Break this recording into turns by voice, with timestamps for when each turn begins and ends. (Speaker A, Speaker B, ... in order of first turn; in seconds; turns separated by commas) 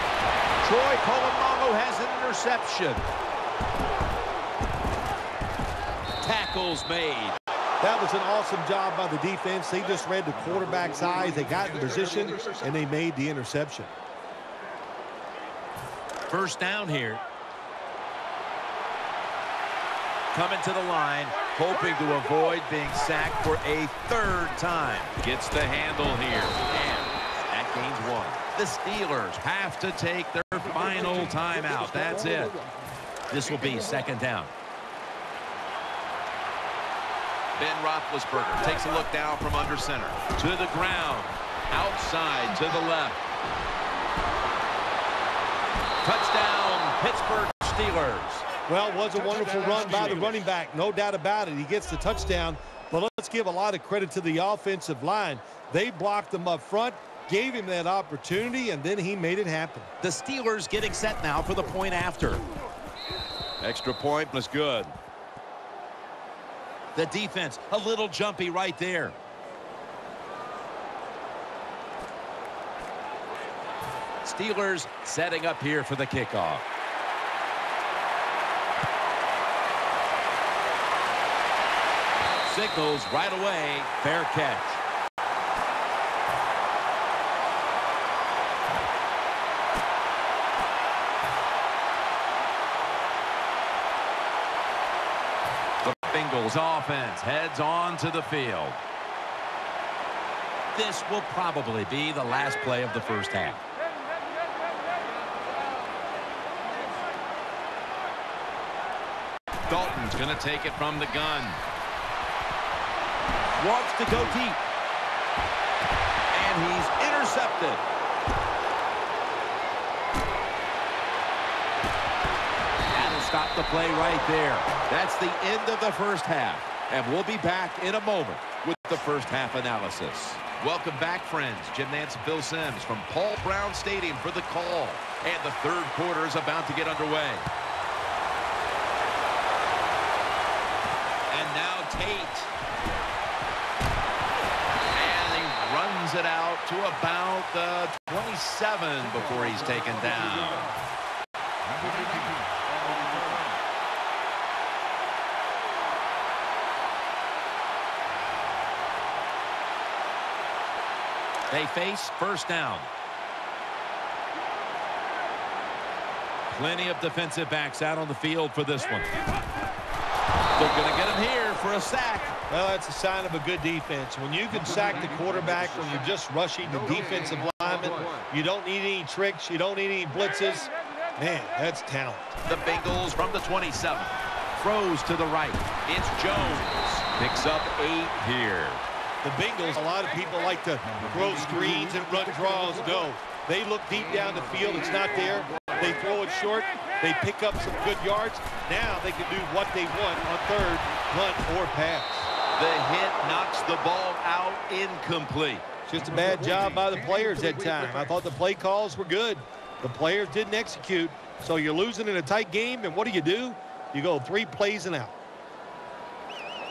Speaker A: 0.6-3.0, Speaker A: 6.2-7.4, Speaker B: 7.8-13.9, Speaker A: 16.3-17.2, Speaker A: 20.3-32.6, Speaker A: 33.3-34.5, Speaker A: 37.6-43.2, Speaker A: 46.0-48.5, Speaker B: 48.7-59.9, Speaker A: 60.0-62.4, Speaker A: 63.6-64.9, Speaker A: 66.9-69.2, Speaker A: 74.2-76.6, Speaker A: 82.4-84.8, Speaker A: 95.8-98.8, Speaker A: 100.7-103.6, Speaker A: 109.7-111.6, Speaker A: 113.6-114.6, Speaker A: 116.3-117.8, Speaker A: 122.9-137.4, Speaker A: 141.3-142.5, Speaker A: 144.9-150.7, Speaker A: 161.5-162.9, Speaker A: 166.5-169.2, Speaker A: 170.5-172.3, Speaker B: 172.5-182.3, Speaker A: 182.5-188.8, Speaker B: 189.2-202.3, Speaker A: 202.5-205.6, Speaker B: 205.8-215.1